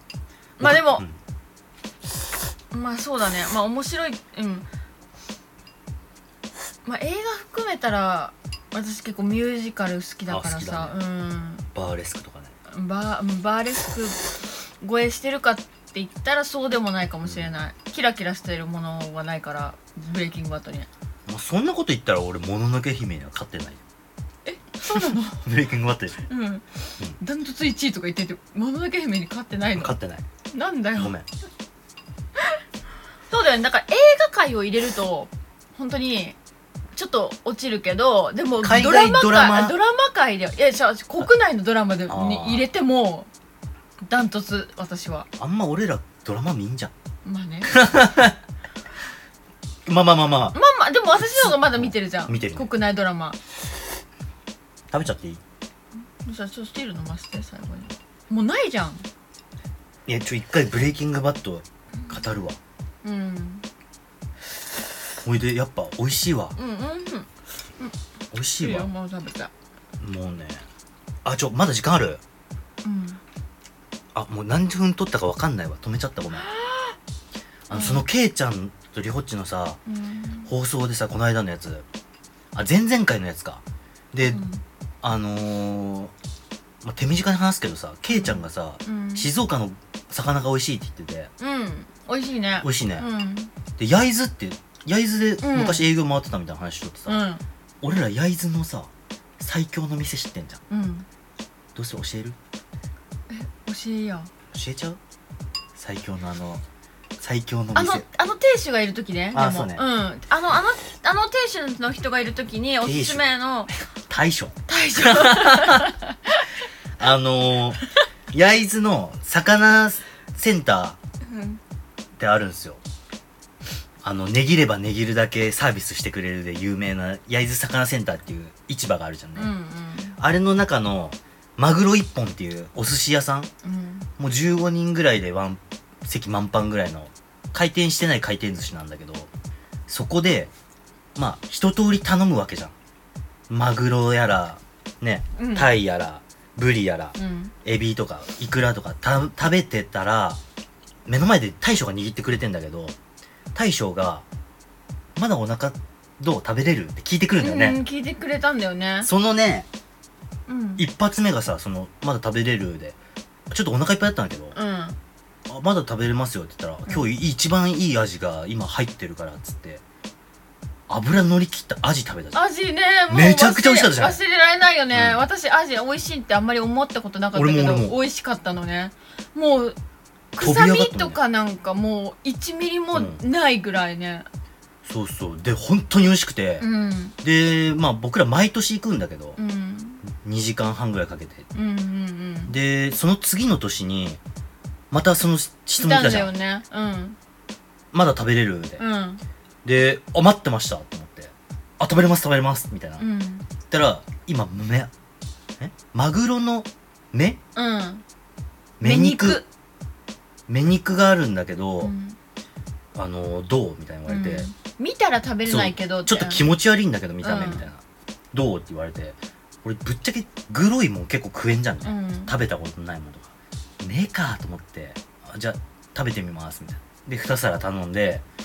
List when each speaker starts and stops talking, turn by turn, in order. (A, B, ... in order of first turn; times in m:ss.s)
0:00.6-0:01.0 A
0:00.6-0:01.2 B
0:02.7-0:04.7 A
0:06.8-0:11.7 A
0:10.3-0:11.0 B
0:11.7-0:12.5 B
0:12.7-0:20.9 A
0:17.2-0:17.5 B
0:21.3-0:23.8 B
0:24.4-0:25.4 A
0:24.9-0:26.2 B
0:26.3-0:30.0 A
0:29.8-0:30.2 B
0:30.5-0:31.2 A
0:31.0-0:31.3 B
0:33.3-0:36.4 A
0:36.9-0:43.3 A
0:38.6-0:39.8 B
0:42.1-0:42.7 B
0:44.0-0:45.3 A
0:45.4-0:46.9 B
0:47.2-0:47.8 A
0:47.6-0:48.4 B
0:49.9-0:50.6 B
0:50.5-0:53.4 A
0:51.2-0:52.7 B
0:54.9-0:55.4 B
0:56.2-0:59.1 A
1:00.1-1:02.6 B
1:03.0-1:03.7 A
1:05.2-1:06.6 B
1:06.6-1:07.3 A
1:08.3-1:08.9 B
1:08.6-1:09.5 A
1:10.0-1:10.7 B
1:11.2-1:12.2 B
1:12.8-1:13.2 A
1:14.1-1:16.5 B
1:16.4-1:17.0 A
1:17.7-1:19.8 B
1:17.7-1:18.1 A
1:19.9-1:20.5 A
1:20.5-1:21.9 B
1:22.5-1:24.4 B
1:24.3-1:24.6 A
1:25.0-1:26.1 B
1:26.8-1:31.3 B
1:28.1-1:29.3 A
1:31.4-1:33.5 A
1:32.6-1:33.1 B
1:33.8-1:37.3 B
1:35.4-1:35.9 A
1:37.1-1:37.4 A
1:37.8-1:40.6 B
1:40.7-1:41.1 A
1:41.8-1:42.4 B
1:43.3-1:44.3 A
1:44.5-1:45.0 B
1:45.8-1:46.6 B
1:47.2-1:48.0 B
1:47.7-1:53.7 A
1:49.3-1:49.8 B
1:52.8-1:53.3 B
1:54.1-1:56.0 B
1:54.7-1:56.5 A
1:57.0-1:57.8 B
1:58.3-2:01.0 B
2:01.2-2:01.6 A
2:02.2-2:02.8 B
2:04.0-2:09.5 B
2:09.4-2:10.2 A
2:10.2-2:13.5 B
2:13.6-2:14.1 A
2:14.2-2:19.3 B
2:19.9-2:20.5 B
2:21.2-2:22.7 B
2:23.5-2:30.4 B
2:25.4-2:25.8 A
2:27.2-2:27.5 A
2:31.1-2:33.0 B
2:33.5-2:34.2 B
2:35.2-2:37.8 B
2:37.4-2:39.1 A
2:39.0-2:39.7 B
2:40.5-2:40.9 A
2:40.8-2:43.0 B
2:43.5-2:44.6 B
2:44.6-2:45.0 A
2:45.5-2:49.8 B
2:50.9-2:52.4 B
2:52.3-2:59.8 A
2:53.1-2:54.2 B
2:54.9-2:55.2 B
2:57.3-2:58.0 B
3:00.4-3:04.3 A
3:00.4-3:01.2 B
3:02.9-3:03.2 B
3:04.8-3:06.7 B
3:06.6-3:07.2 A
3:07.2-3:09.4 B
3:09.4-3:10.0 A
3:10.0-3:11.5 B
3:11.5-3:12.6 A
3:12.5-3:14.2 B
3:14.9-3:16.3 B
3:15.8-3:17.2 A
3:17.9-3:18.8 B
3:18.8-3:19.2 A
3:19.6-3:23.0 B
3:23.0-3:23.5 A
3:23.7-3:24.9 B
3:25.6-3:27.4 B
3:27.6-3:28.0 A
3:28.8-3:29.4 B
3:28.8-3:29.5 A
3:30.5-3:31.9 B
3:31.8-3:32.2 A
3:33.0-3:34.5 B
3:34.1-3:36.4 A
3:35.5-3:37.8 B
3:37.2-3:37.7 A
3:38.3-3:48.2 B
3:41.8-3:42.4 A